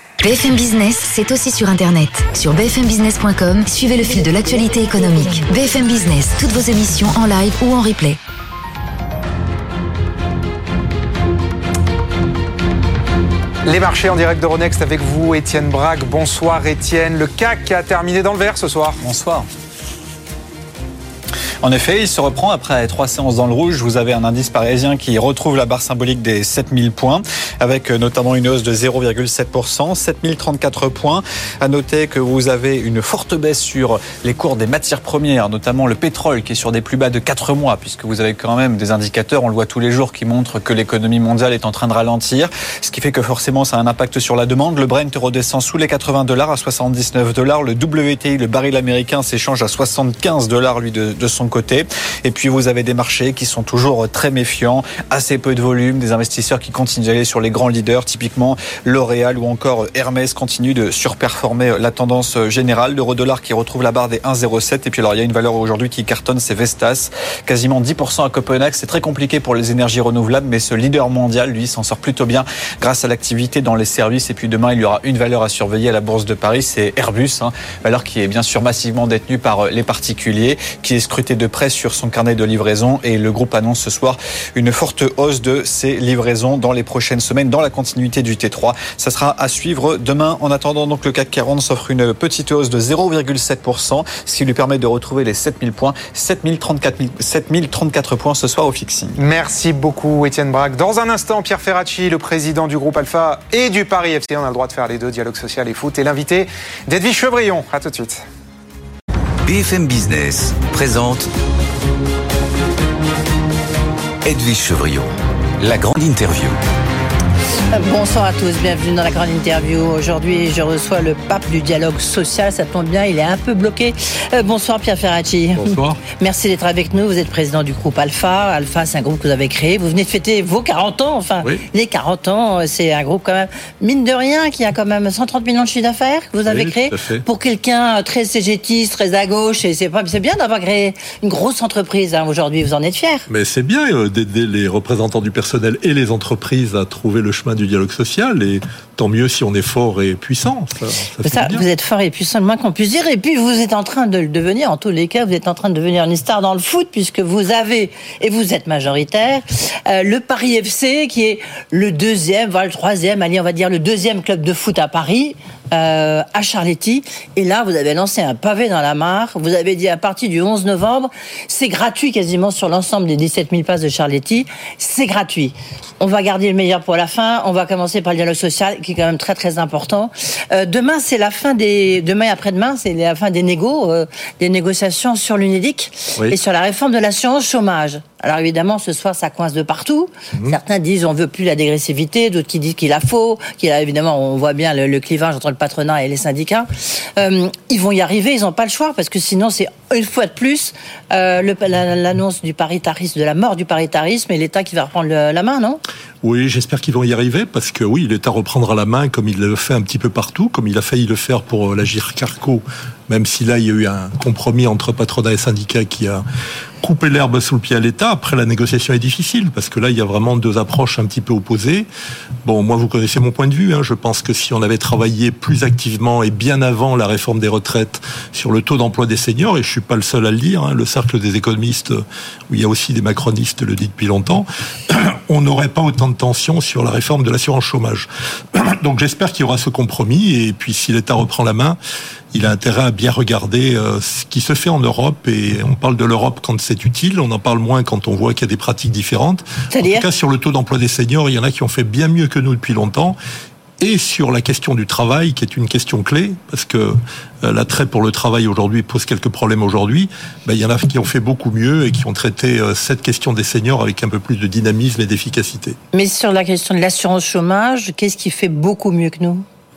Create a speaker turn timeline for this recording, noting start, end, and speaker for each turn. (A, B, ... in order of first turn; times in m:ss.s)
0:00.2-0:08.2 A
0:13.6-0:19.0 B
0:19.0-0:19.5 C
0:21.6-1:39.1 C
1:39.2-1:48.2 B
1:49.4-1:51.3 D
1:54.2-1:56.6 D
1:57.7-2:23.2 E
2:05.6-2:06.0 F
2:16.5-2:17.2 F
2:23.3-2:31.6 F
2:31.2-3:25.8 E
3:26.2-3:36.2 F
3:36.8-3:41.9 F
3:42.4-4:01.8 F
4:02.3-4:13.2 F
4:09.7-4:10.1 E
4:13.8-4:25.8 F
4:25.9-4:29.4 E